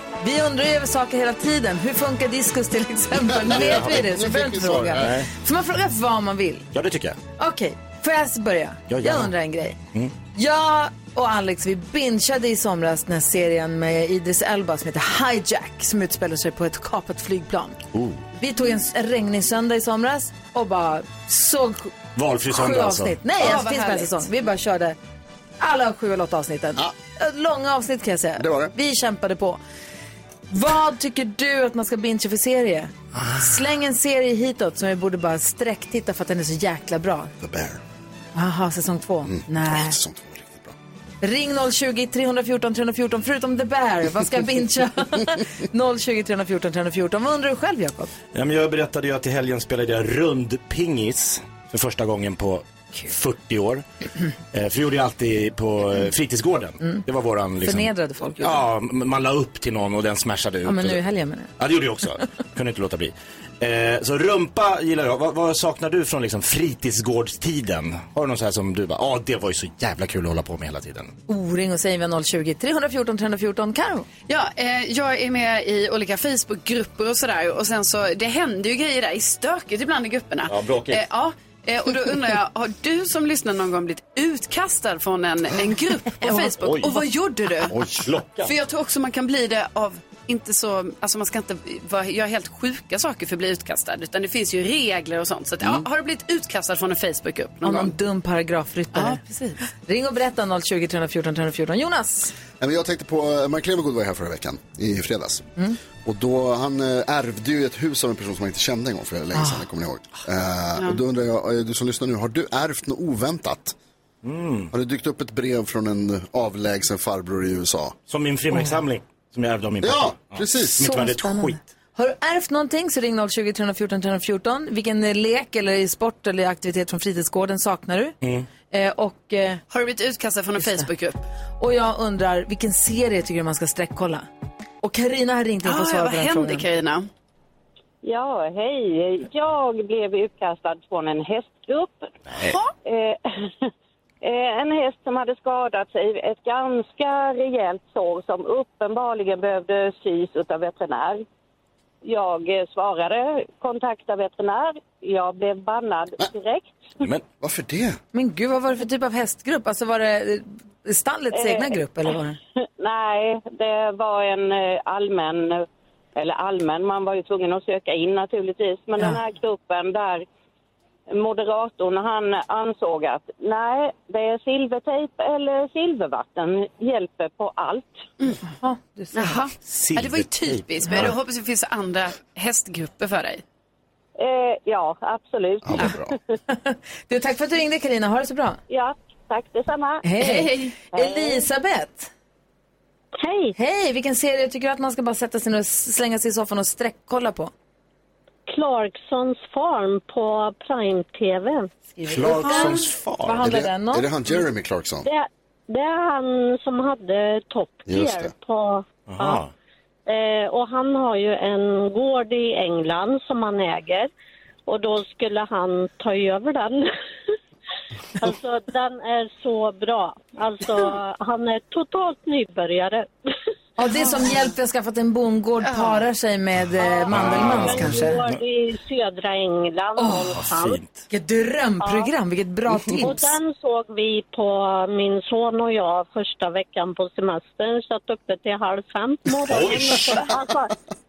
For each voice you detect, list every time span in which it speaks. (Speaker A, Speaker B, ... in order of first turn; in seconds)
Speaker A: 0.2-6.7, 7.4-9.8, 10.3-17.8, 18.4-21.9, 22.5-25.0, 25.6-29.6, 30.5-37.3, 38.3-40.0, 41.2-48.1, 57.6-58.7, 60.6-61.5, 71.3-74.1, 97.6-102.3, 109.3-109.6, 120.8-128.1, 128.7-129.6, 130.6-130.9, 131.6-134.2, 134.8-136.6, 158.1-162.4, 178.5-179.4, 186.5-188.6, 190.0-192.1, 193.6-197.5, 201.9-204.1, 223.8-228.2, 230.0-230.4, 231.1-233.3
Speaker B: 3.4-5.2, 28.4-28.7, 37.4-37.8, 39.2-40.7, 87.7-88.1, 102.6-105.5, 106.0-113.8, 114.7-118.0, 119.8-120.8, 157.4-158.0, 185.6-186.1, 203.4-205.1, 207.9-208.3
Speaker C: 3.5-3.9, 5.0-5.3, 6.7-7.2, 8.9-9.3, 17.9-18.2, 22.1-23.2, 48.3-53.8, 54.5-61.0, 61.6-71.1, 80.5-81.0, 86.5-87.0, 87.7-88.5, 114.2-114.7, 118.1-121.6, 179.7-181.1, 202.1-203.4, 209.1-209.5, 227.1-228.4, 230.3-231.0, 239.5-240.3
Speaker D: 23.4-24.3, 74.3-87.8, 88.4-97.9, 98.9-99.6, 129.7-131.2, 135.6-137.1, 142.4-142.7, 179.1-183.4, 190.2-190.7, 225.6-226.0
Speaker E: 138.0-142.1, 142.8-143.7, 144.2-151.2, 152.0-156.9, 161.3-161.8, 162.8-165.6, 166.2-170.2, 171.1-178.1, 184.2-186.1, 188.7-190.1, 190.9-191.5
Speaker F: 193.2-193.5, 198.5-201.7, 202.4-202.7, 205.0-209.4, 210.1-214.1, 214.7-216.9, 218.2-223.1, 226.9-230.8, 231.8-232.1, 233.0-240.7